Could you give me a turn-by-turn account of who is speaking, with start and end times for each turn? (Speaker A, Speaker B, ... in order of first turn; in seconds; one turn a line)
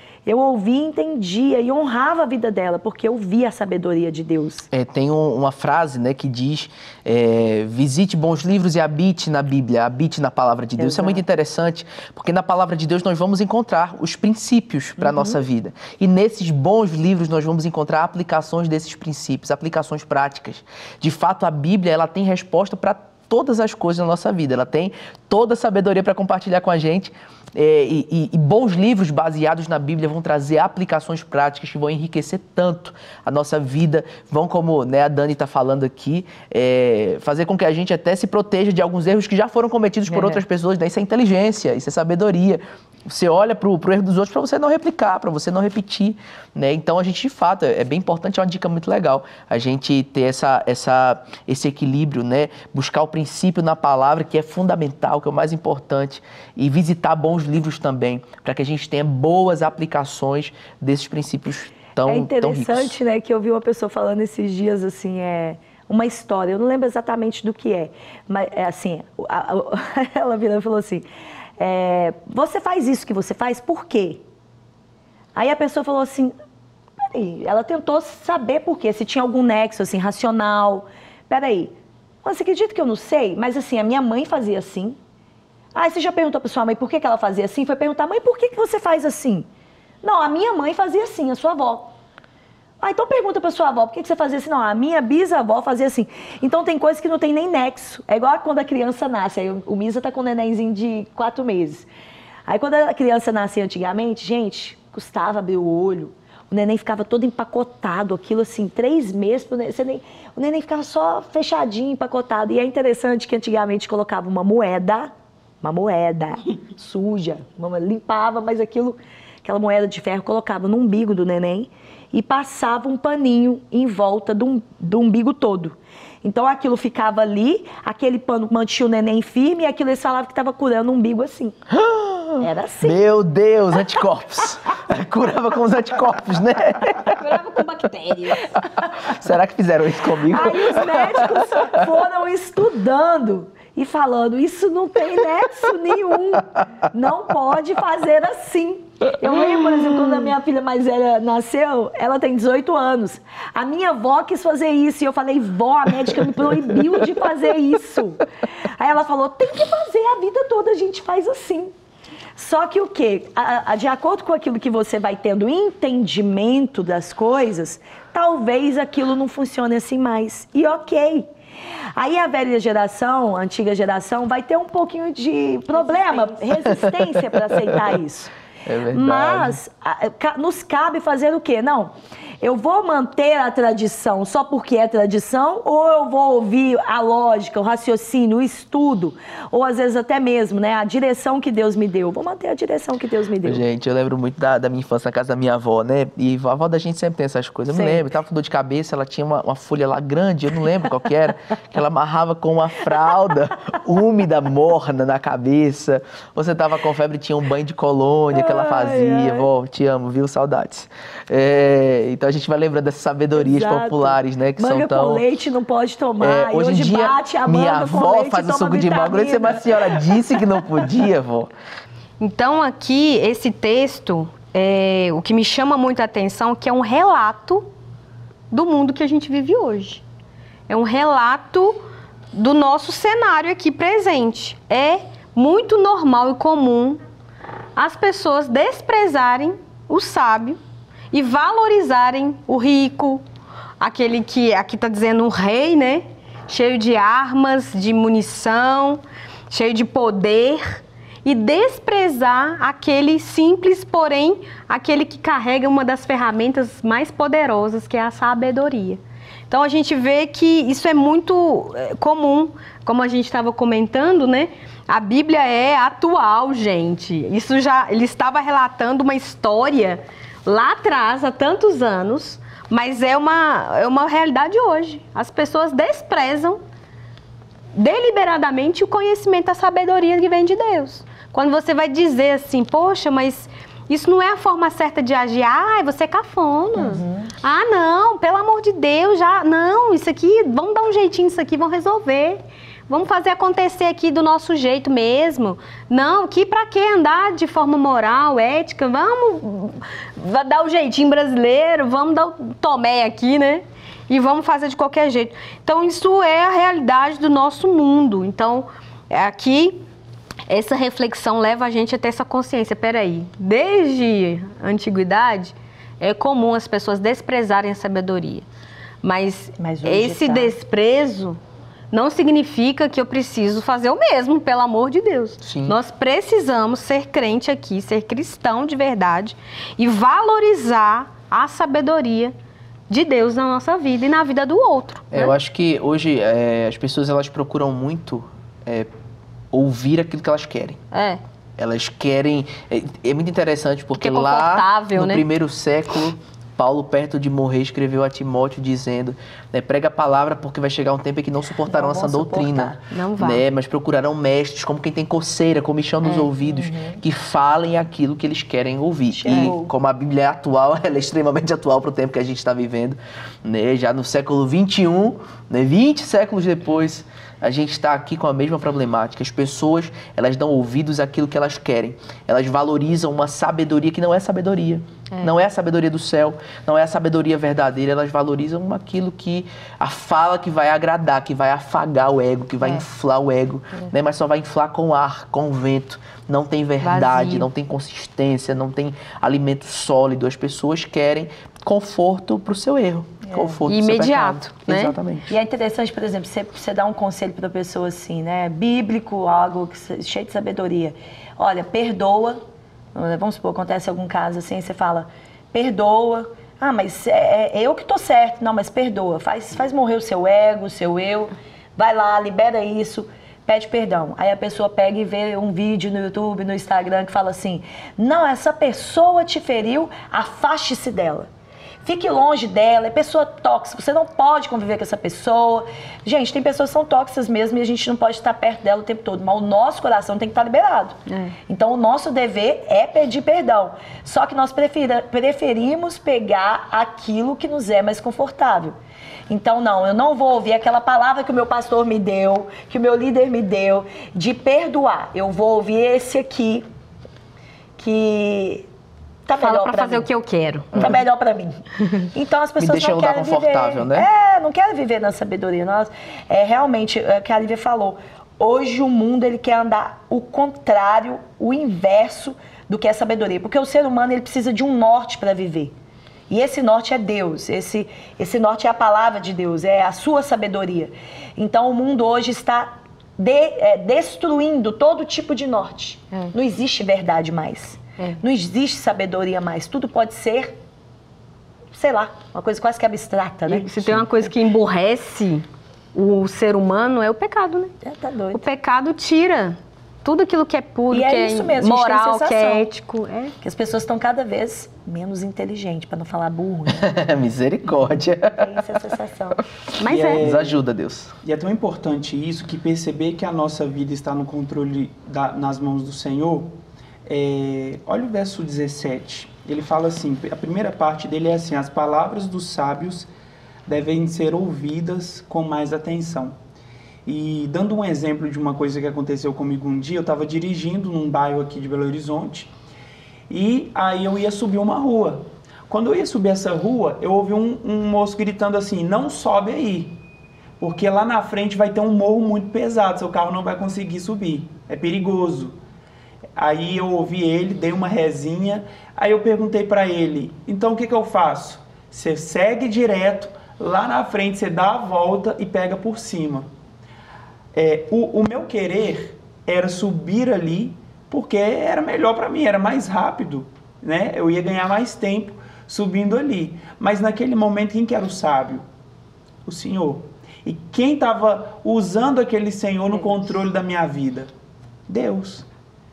Speaker A: 0.3-4.7
Speaker B: 4.7-63.0
Speaker A: 10.8-11.2
Speaker A: 15.0-15.4
Speaker A: 40.1-40.4
Speaker A: 62.0-71.1
Speaker A: 71.6-74.2
Speaker A: 75.3-76.3
Speaker A: 77.1-81.7
Speaker A: 82.2-85.0
Speaker A: 85.7-89.5
Speaker A: 90.0-91.9
Speaker A: 92.8-101.9
Speaker A: 102.5-131.6
Speaker B: 131.7-137.2
Speaker A: 132.4-133.0
Speaker C: 137.1-138.6
Speaker B: 138.6-141.7
Speaker A: 140.2-158.2
Speaker A: 158.8-161.7
Speaker A: 162.4-171.3
Speaker A: 171.9-178.3
Speaker C: 175.9-176.3
Speaker B: 178.7-179.6
Speaker A: 178.9-193.6
Speaker B: 193.4-215.3
Speaker A: 197.7-198.1
Speaker A: 208.3-209.5
Speaker A: 213.4-220.2
Speaker B: 216.2-221.5
Speaker C: 222.2-227.7
Speaker C: 228.5-230.0
Speaker C: 230.7-231.8
Speaker C: 232.3-237.0
Speaker C: 237.8-240.6
Speaker C: 241.1-243.2
Speaker C: 243.8-276.6
Speaker C: 277.8-309.8
Speaker A: 286.7-287.3
Speaker C: 310.5-318.5
Speaker C: 319.0-321.4
Speaker A: 319.6-320.6
Speaker C: 321.9-332.3
Speaker B: 325.4-325.8
Speaker C: 332.9-335.3
Speaker B: 335.1-338.9
Speaker B: 339.5-340.8
Speaker C: 340.9-341.2
Speaker B: 341.6-395.3
Speaker C: 344.0-345.2
Speaker A: 351.7-352.8
Speaker C: 352.9-353.4
Speaker A: 356.4-357.0
Speaker A: 359.1-359.7
Speaker C: 359.3-359.5
Speaker C: 386.8-387.5
Speaker A: 393.2-393.6
Speaker C: 393.7-395.0
Speaker A: 395.3-402.4
Speaker A: 402.9-421.3
Speaker A: 421.8-438.8
Speaker C: 431.1-431.4
Speaker A: 439.3-446.7
Speaker A: 447.8-448.7
Speaker A: 449.3-450.1
Speaker C: 449.3-450.9
Speaker A: 450.7-451.6
Speaker A: 452.1-465.7
Speaker B: 452.6-454.1
Speaker A: 466.3-480.6
Speaker A: 481.7-484.3
Speaker C: 483.5-487.7
Speaker A: 487.8-488.5
Speaker C: 488.3-493.4
Speaker A: 490.9-492.7
Speaker A: 493.4-496.9
Speaker B: 496.7-498.5
Speaker A: 498.3-499.4
Speaker C: 499.8-500.2
Speaker D: 499.9-500.6
Speaker B: 500.2-501.1
Speaker D: 501.2-513.1
Speaker D: 513.7-516.4
Speaker D: 517.1-522.5
Speaker D: 523.3-530.0
Speaker D: 530.6-535.6
Speaker D: 536.4-546.5
Speaker D: 547.5-558.6
Speaker D: 559.5-564.3
Speaker D: 564.9-565.5